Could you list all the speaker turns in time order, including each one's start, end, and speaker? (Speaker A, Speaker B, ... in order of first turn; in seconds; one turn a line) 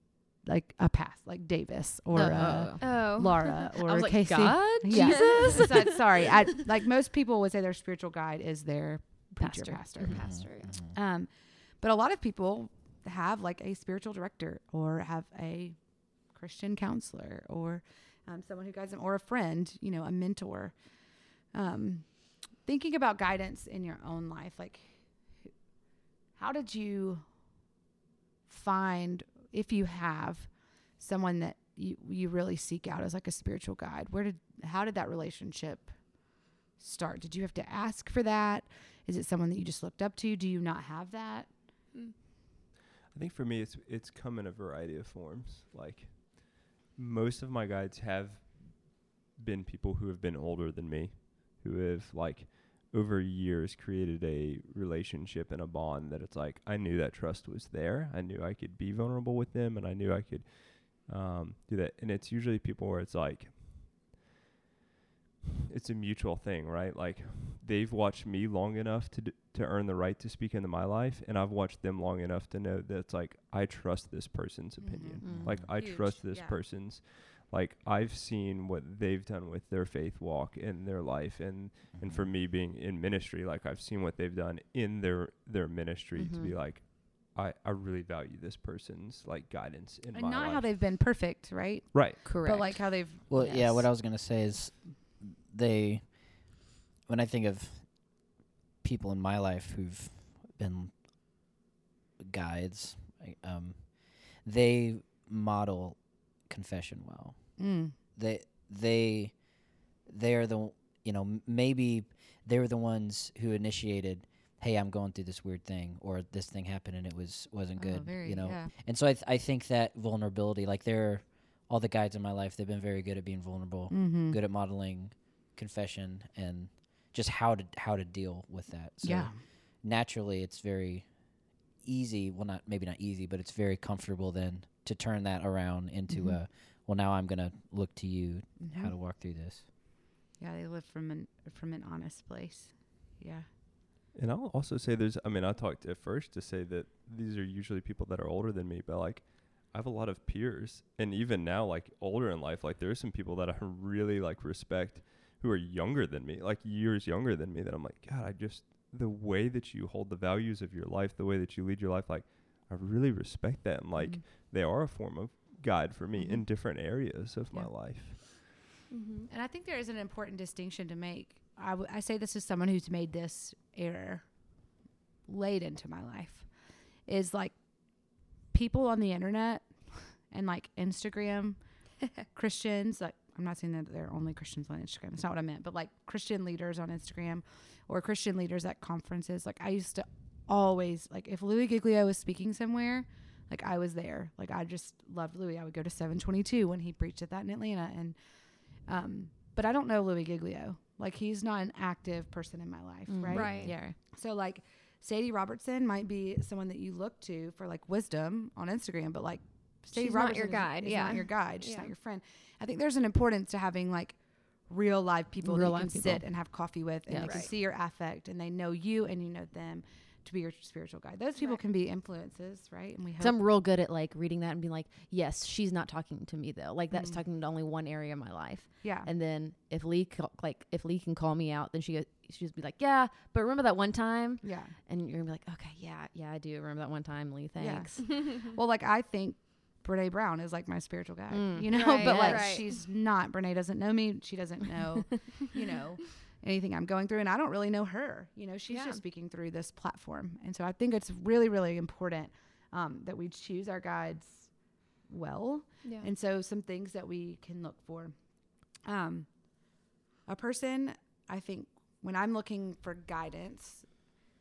Speaker A: 0.5-10.4
Speaker B: 2.1-6.0
Speaker C: 2.8-3.5
Speaker C: 4.9-5.6
Speaker B: 9.4-10.2
Speaker C: 10.0-10.7
Speaker D: 10.1-10.9
Speaker A: 10.9-15.8
Speaker A: 16.3-20.8
Speaker A: 21.5-22.1
Speaker A: 22.6-25.5
Speaker A: 26.4-27.2
Speaker A: 28.5-36.2
Speaker A: 36.8-41.5
Speaker E: 43.1-64.0
Speaker E: 65.7-90.7
Speaker A: 74.8-76.6
Speaker B: 75.2-75.6
Speaker D: 75.3-75.7
Speaker D: 82.0-82.3
Speaker B: 86.2-86.6
Speaker A: 90.1-93.3
Speaker E: 91.9-92.3
Speaker B: 92.2-93.9
Speaker D: 93.3-96.5
Speaker D: 97.1-98.1
Speaker D: 98.8-100.9
Speaker D: 102.2-107.5
Speaker A: 107.6-108.0
Speaker D: 108.2-109.3
Speaker D: 110.1-131.1
Speaker A: 117.8-118.7
Speaker A: 123.9-124.4
Speaker A: 129.0-129.4
Speaker D: 131.8-139.7
Speaker A: 136.1-136.4
Speaker A: 138.6-138.9
Speaker A: 140.4-143.5
Speaker E: 144.1-168.3
Speaker A: 164.0-164.2
Speaker C: 168.9-169.3
Speaker A: 169.3-174.3
Speaker A: 175.3-176.5
Speaker A: 177.1-177.6
Speaker A: 178.5-179.7
Speaker A: 180.3-181.6
Speaker A: 182.3-198.2
Speaker A: 198.9-223.4
Speaker B: 203.1-204.0
Speaker C: 203.3-203.8
Speaker C: 209.9-211.9
Speaker B: 215.4-216.3
Speaker B: 217.1-217.5
Speaker C: 217.2-217.5
Speaker C: 221.4-221.6
Speaker B: 223.2-238.2
Speaker A: 226.9-227.2
Speaker A: 228.8-229.1
Speaker A: 234.4-234.8
Speaker A: 237.6-254.5
Speaker B: 241.3-242.6
Speaker C: 241.7-242.8
Speaker C: 248.7-249.0
Speaker A: 255.1-258.2
Speaker C: 255.8-256.1
Speaker A: 258.9-259.3
Speaker A: 260.3-263.9